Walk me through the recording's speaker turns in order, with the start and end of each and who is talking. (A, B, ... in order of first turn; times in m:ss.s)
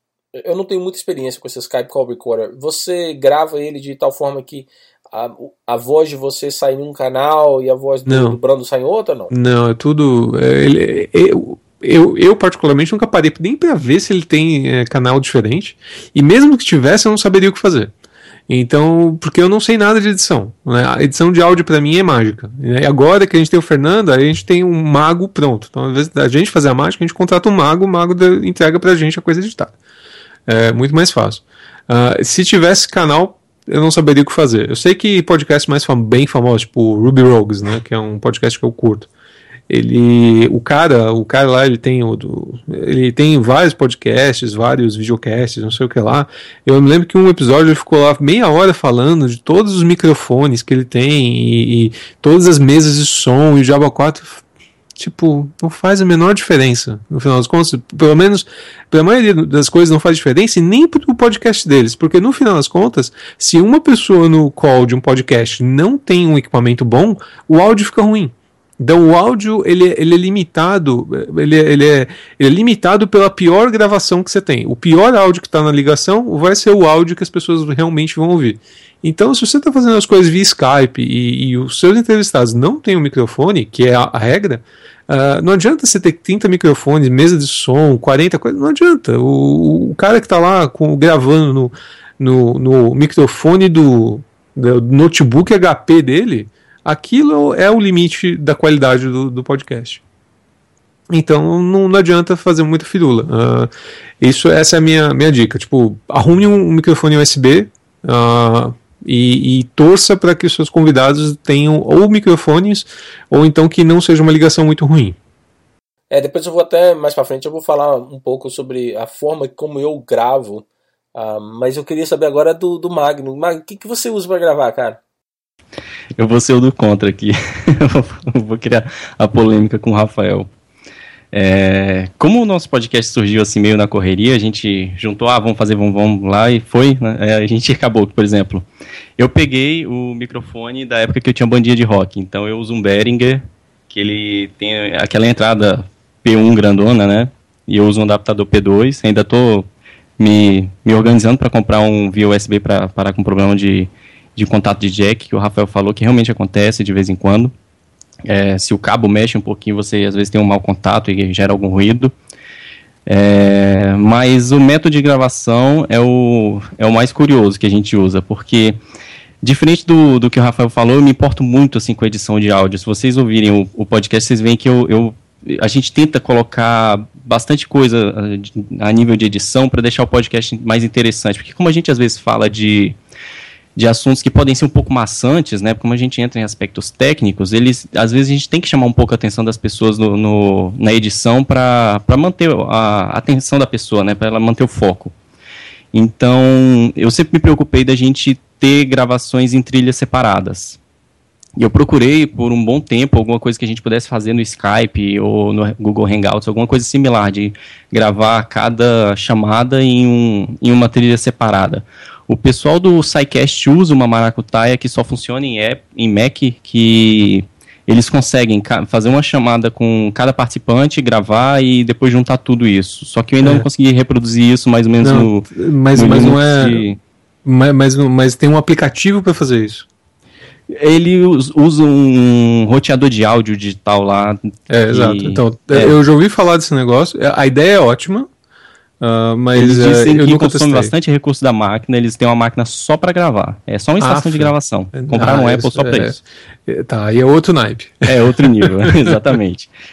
0:00.4-0:09.3 A
0:08.0-0:08.4 B
0:09.3-0:17.9 B
0:18.5-0:29.7 B
0:30.5-0:39.1 B
0:39.7-0:54.4 B
0:55.0-1:40.0 B
1:41.1-1:43.7 B
1:44.2-1:55.2 B
1:56.1-2:05.0 A
2:06.2-2:10.5 C
2:11.3-2:18.6 C
2:19.2-2:29.7 C
2:30.2-2:37.5 C
2:38.2-2:42.1 C
2:43.1-2:48.8 C
2:49.4-3:03.0 C
3:03.8-3:15.1 C
3:15.9-3:20.8 C
3:21.6-3:47.0 C
3:45.0-3:46.8 B
3:47.4-3:49.8 B
3:50.7-3:56.0 C
3:54.7-3:58.3 B
3:59.0-4:00.9 B
3:59.6-4:06.2 C
4:04.0-4:09.4 B
4:08.0-4:09.7 C